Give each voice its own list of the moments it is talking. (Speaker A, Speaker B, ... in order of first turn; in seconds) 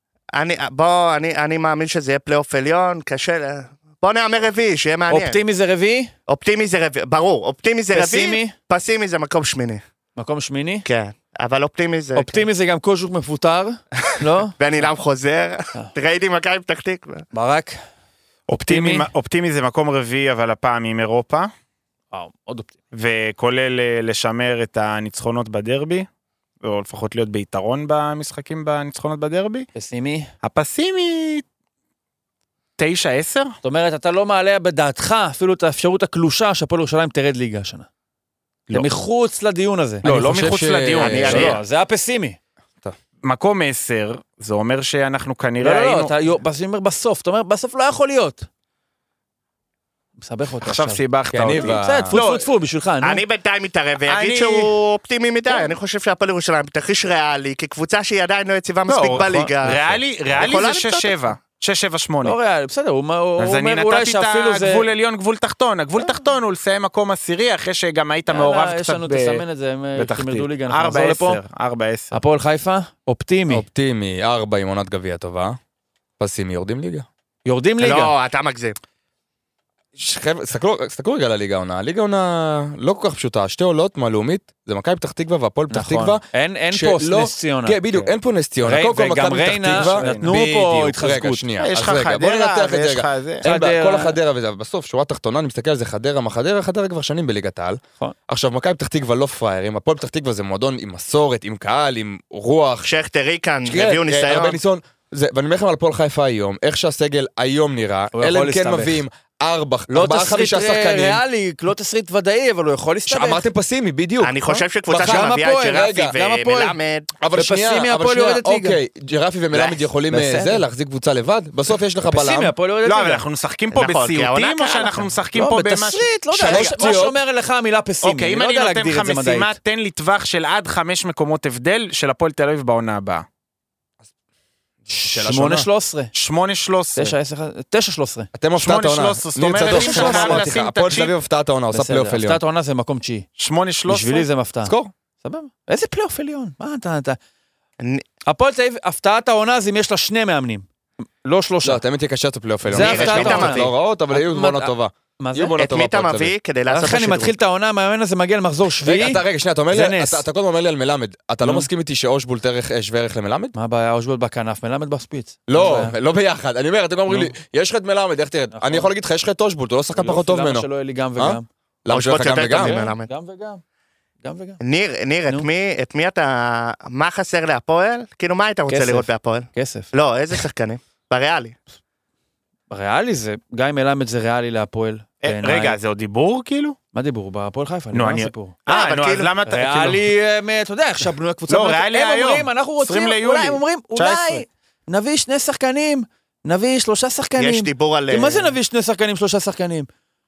Speaker A: 0.3-5.4, 6.3-9.8, 10.8-12.4, 14.5-17.2, 41.0-41.6, 53.0-59.8, 60.3-61.1, 77.8-78.8, 102.8-104.6, 114.2-117.1, 123.7-125.0, 152.7-153.7, 155.6-157.3, 171.9-173.1, 174.6-181.6, 188.7-189.3, 197.4-198.5
Speaker B: 5.1-6.1, 7.9-8.5, 10.2-10.8, 12.1-14.5, 17.3-17.8, 18.6-19.1, 22.1-22.7, 29.8-30.3, 33.6-37.9, 38.7-40.0, 41.1-42.4, 45.6-48.5, 50.2-51.0, 51.5-53.2, 62.2-64.8, 66.0-66.2, 68.3-71.4, 72.1-73.6, 77.5-78.1, 85.7-91.5, 93.4-94.2, 108.1-109.0, 109.9-113.4, 114.5-116.8, 117.3-118.8, 119.5-120.7, 122.0-123.2, 125.3-129.6, 134.9-136.1, 136.9-138.3, 139.6-140.5, 141.7-143.2, 143.9-147.2, 148.2-150.7, 151.2-151.8, 152.7-155.6, 156.7-160.2, 161.4-161.7, 163.5-165.9, 167.1-167.3, 168.5-168.9, 169.9-171.4, 172.3-173.6, 174.2-174.6, 178.7-179.9, 182.7-185.8, 186.9-188.5, 189.5-199.9
Speaker C: 18.5-21.5, 22.9-26.1, 26.6-29.7, 30.4-31.4, 32.8-33.5, 40.0-41.6, 43.2-46.1, 50.6-52.4, 54.0-54.7, 58.9-62.4, 63.4-69.4, 70.0-72.1, 89.7-90.3, 91.6-93.4, 122.8-127.0, 128.0-133.2, 136.1-137.1, 138.6-141.1, 143.4-144.3, 185.2-186.8, 187.9-190.1, 191.5-194.4
Speaker D: 40.0-41.5, 51.3-52.2, 59.7-60.0, 73.5-75.6, 76.2-77.1, 80.0-102.9, 103.7-111.2, 113.1-114.3, 114.9-116.2, 117.2-122.5, 126.4-127.2, 134.9-135.7, 138.3-142.4, 144.6-144.9, 151.6-156.3, 158.8-163.5, 165.5-172.9